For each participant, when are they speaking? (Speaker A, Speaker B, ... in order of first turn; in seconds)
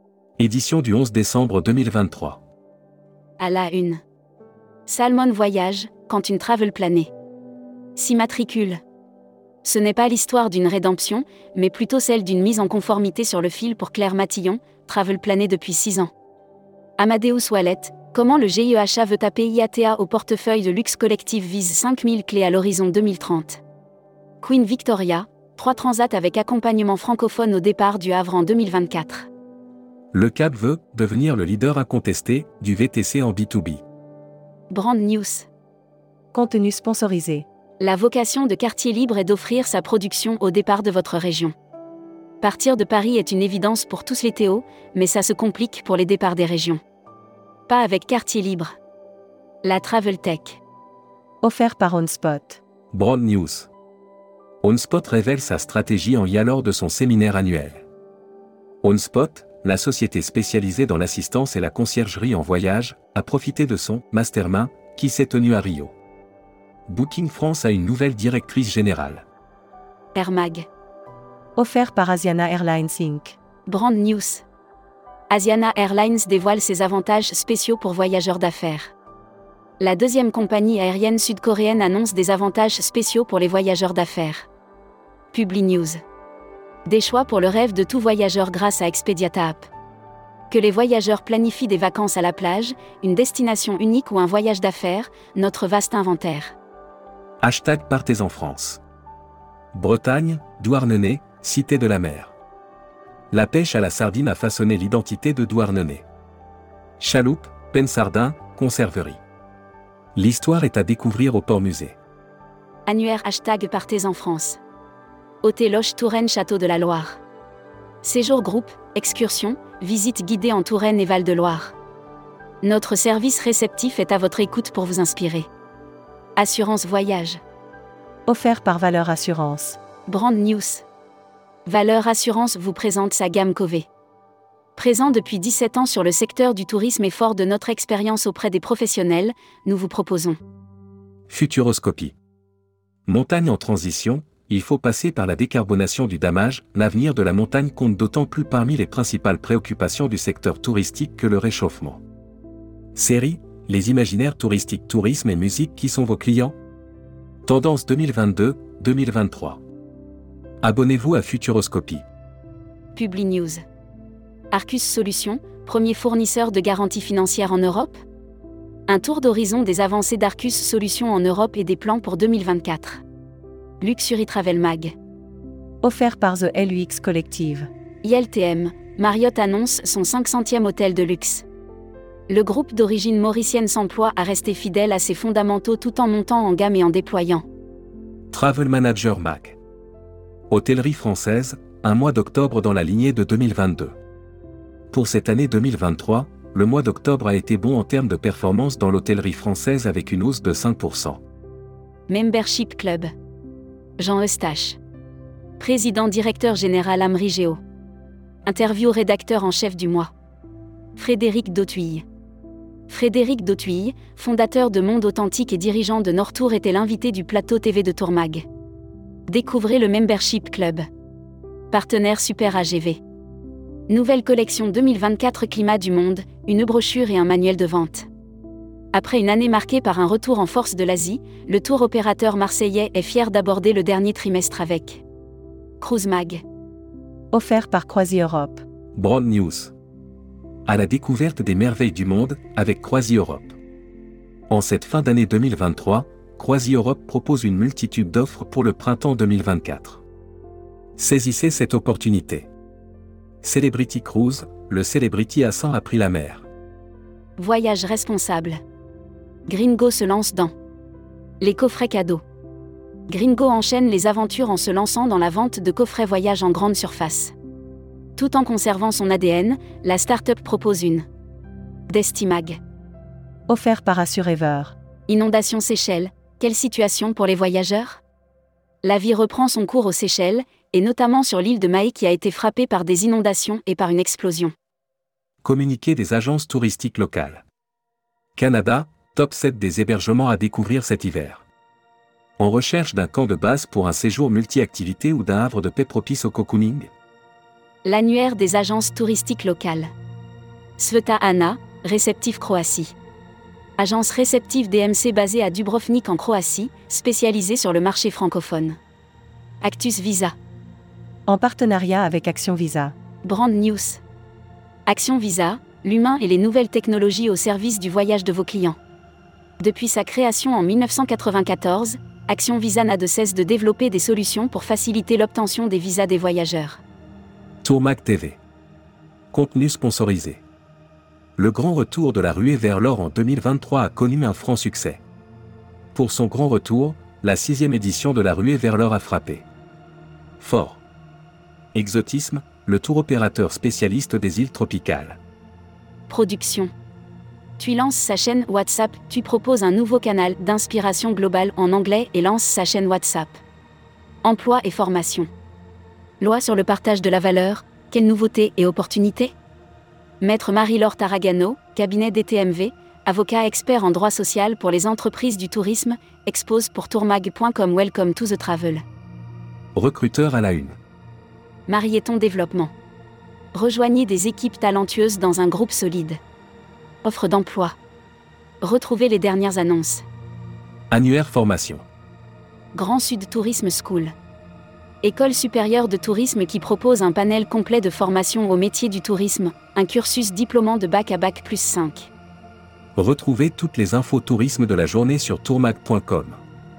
Speaker A: 0.4-2.4, 30.1-33.8, 52.9-53.7, 54.6-57.8, 58.8-65.9, 66.9-69.2, 97.4-98.8, 99.7-102.3, 103.3-106.0, 107.0-109.2, 110.1-112.0, 141.3-142.1, 143.1-152.0, 152.9-156.5, 157.4-159.6, 160.6-162.0, 188.3-189.6, 190.5-193.9, 194.9-201.2, 238.9-239.7, 240.7-243.6, 244.5-250.0, 251.0-252.5, 253.4-256.5, 285.4-287.4, 288.4-291.4, 292.4-296.9, 327.6-328.4, 329.3-330.4, 331.4-335.0, 335.9-339.4, 340.4-340.8, 341.7-345.2, 369.7-370.8, 380.9-381.8, 392.9-396.4
Speaker B: 3.4-4.0, 4.8-7.1, 8.0-8.8, 9.6-16.1, 17.0-23.6, 24.4-29.3, 34.7-35.5, 37.8-41.5, 42.4-46.8, 47.7-48.7, 49.6-50.6, 70.1-70.7, 73.7-74.4, 75.3-78.9, 79.8-84.5, 85.3-86.0, 86.8-89.7, 90.5-96.5, 112.9-114.6, 115.4-117.2, 118.0-121.7, 122.6-125.5, 126.4-127.4, 130.1-130.8, 131.7-133.9, 134.8-140.4, 162.9-163.6, 164.5-167.9, 168.9-173.0, 173.8-174.9, 178.0-181.4, 182.3-187.4, 202.1-203.1, 204.0-204.8, 205.6-207.6, 208.4-210.1, 210.9-212.0, 212.9-218.4, 219.3-220.8, 221.7-223.0, 223.9-228.1, 228.9-235.0, 235.8-236.4, 257.4-258.6, 259.5-260.5, 261.4-262.2, 263.1-267.3, 268.1-271.0, 271.9-272.6, 275.1-278.0, 278.8-284.5, 297.8-299.9, 300.8-302.9, 303.8-308.8, 309.6-310.3, 313.2-314.0, 314.9-318.8, 319.6-326.8, 346.1-346.7, 347.6-353.4, 354.2-355.3, 356.2-359.3, 360.2-368.8, 371.7-372.7, 373.5-376.2, 377.0-377.7, 378.6-380.0, 382.7-384.1, 385.0-392.1
Speaker C: 36.3-37.5, 51.4-52.6, 71.5-73.3, 128.3-129.8, 175.8-177.7, 237.3-238.6, 273.5-274.8, 311.3-312.9